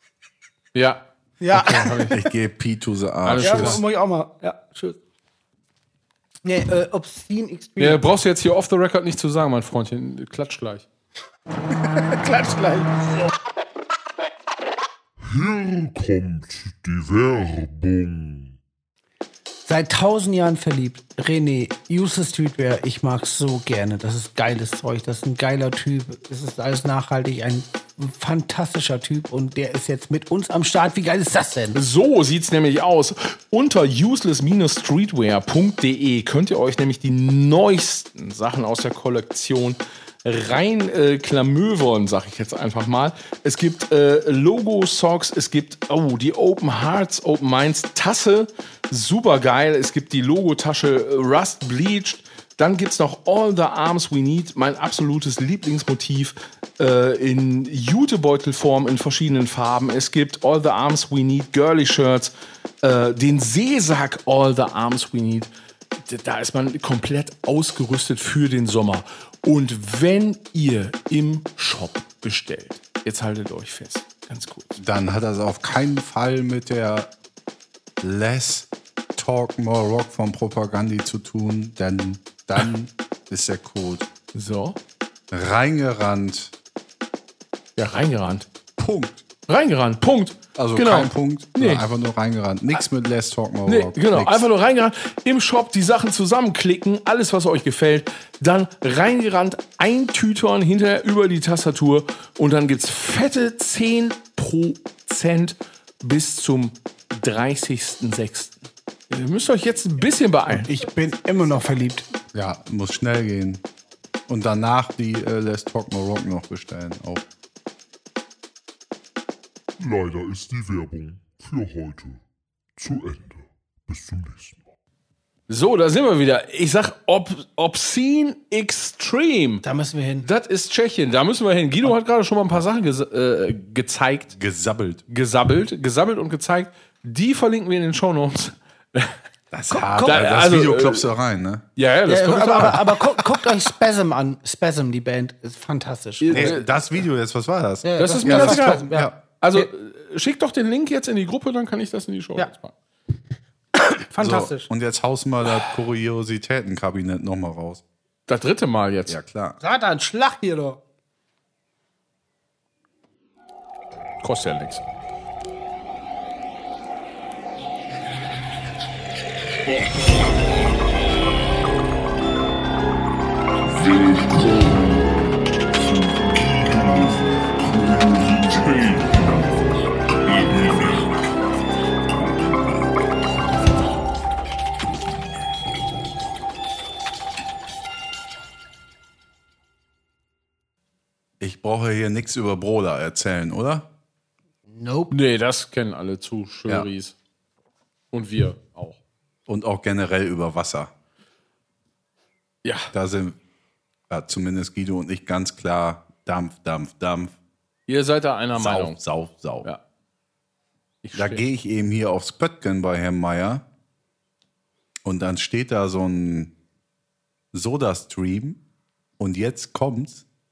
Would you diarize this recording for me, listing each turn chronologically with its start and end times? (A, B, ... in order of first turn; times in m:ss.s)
0:00.7-0:01.0 A
0:01.4-0:02.2 B
0:01.5-0:02.2 A
0:02.1-0:03.8 C
0:03.2-0:03.8 A
0:03.4-0:05.0 B
0:06.4-0:08.0 B
0:07.8-0:10.8 A
0:11.8-0:13.3 B
0:15.2-0:18.6 D
0:19.6-0:31.8 B
0:31.7-1:02.3 A
1:02.8-1:14.8 A
1:14.8-1:17.1 C
1:18.0-1:24.1 C
1:24.3-1:24.8 A
1:25.3-1:26.5 C
1:27.8-1:28.4 A
1:28.8-1:29.2 C
1:29.5-1:31.8 A
1:30.6-1:34.5 C
1:33.7-1:48.6 A
1:49.1-1:50.7 A
1:50.6-1:52.1 B
1:52.3-1:53.6 C
1:54.3-1:57.2 C
1:59.8-2:02.2 D
2:02.8-2:04.6 D
2:05.5-2:09.6 A
2:09.6-2:10.3 B
2:10.2-2:14.3 A
2:14.3-2:15.0 C
2:15.1-2:19.2 A
2:19.5-2:21.6 C
2:19.7-2:20.2 B
2:20.0-2:21.0 A
2:21.8-2:22.9 A
2:22.1-2:26.6 B
2:26.2-2:26.7 A
2:26.3-2:29.1 C
2:27.8-2:29.7 B
2:28.0-2:32.7 A
2:33.7-2:34.7 B
2:34.2-2:37.8 C
2:38.3-2:39.2 A
2:39.1-2:39.6 C
2:39.6-2:40.8 B
2:44.2-2:44.8 A
2:49.8-2:50.0 D
2:53.7-3:01.1 D
3:02.2-3:02.6 D
3:11.4-3:13.8 C
3:14.7-3:15.1 B
3:15.1-3:17.1 A
3:18.1-3:19.0 A
3:19.5-3:20.9 C
3:22.6-3:22.9 A
3:22.9-3:23.4 C
3:24.1-3:27.3 C
3:27.9-3:29.0 A
3:28.6-3:29.7 C
3:31.0-3:31.4 A
3:31.1-3:33.6 C
3:35.0-3:36.5 C
3:37.5-3:38.6 C
3:39.2-3:40.2 C